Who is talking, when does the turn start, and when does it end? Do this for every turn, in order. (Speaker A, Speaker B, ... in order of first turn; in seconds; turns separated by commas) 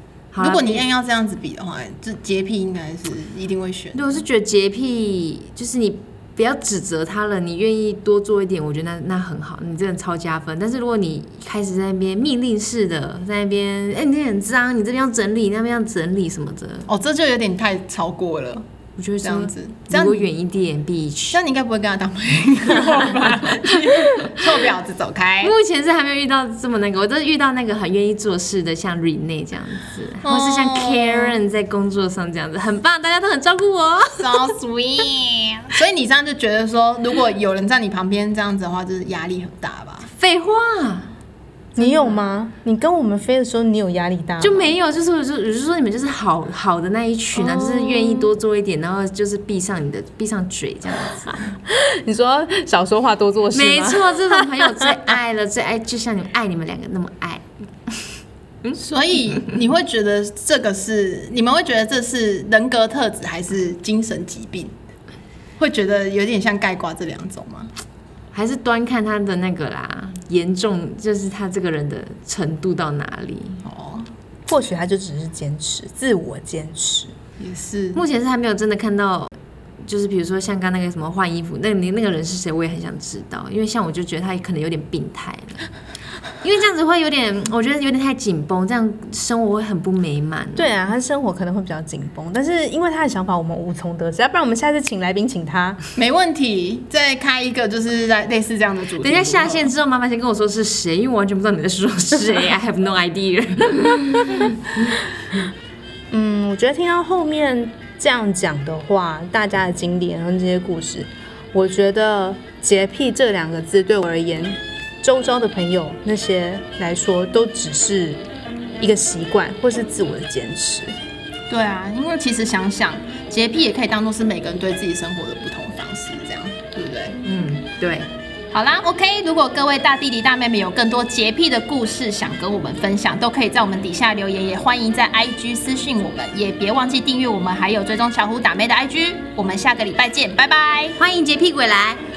Speaker A: 0.3-0.9, Speaker B: 0.4-4.2, Speaker A: 3.9-16.9, Speaker B: 16.9-18.6, Speaker A: 19.0-21.4, Speaker B: 19.2-20.2, Speaker B: 21.3-25.5, Speaker A: 25.4-34.5, Speaker B: 30.2-31.4, Speaker B: 34.2-40.1, Speaker A: 40.1-41.1, Speaker C: 41.8-44.7, Speaker A: 41.8-42.2, Speaker A: 44.4-51.5, Speaker C: 47.4-48.3, Speaker C: 51.7-54.7, Speaker A: 53.5-57.4, Speaker B: 58.8-64.7, Speaker B: 65.6-67.7, Speaker A: 68.3-73.6, Speaker B: 73.6-74.1, Speaker C: 74.5-77.1, Speaker B: 77.4-78.0, Speaker A: 77.9-79.3, Speaker A: 79.8-85.6, Speaker A: 86.4-90.7, Speaker C: 90.5-95.8, Speaker B: 96.0-99.7, Speaker A: 99.0-104.9, Speaker C: 106.1-118.2, Speaker C: 118.8-121.0, Speaker B: 121.5-127.1, Speaker A: 127.2-128.1, Speaker B: 128.5-140.9, Speaker A: 141.0-142.0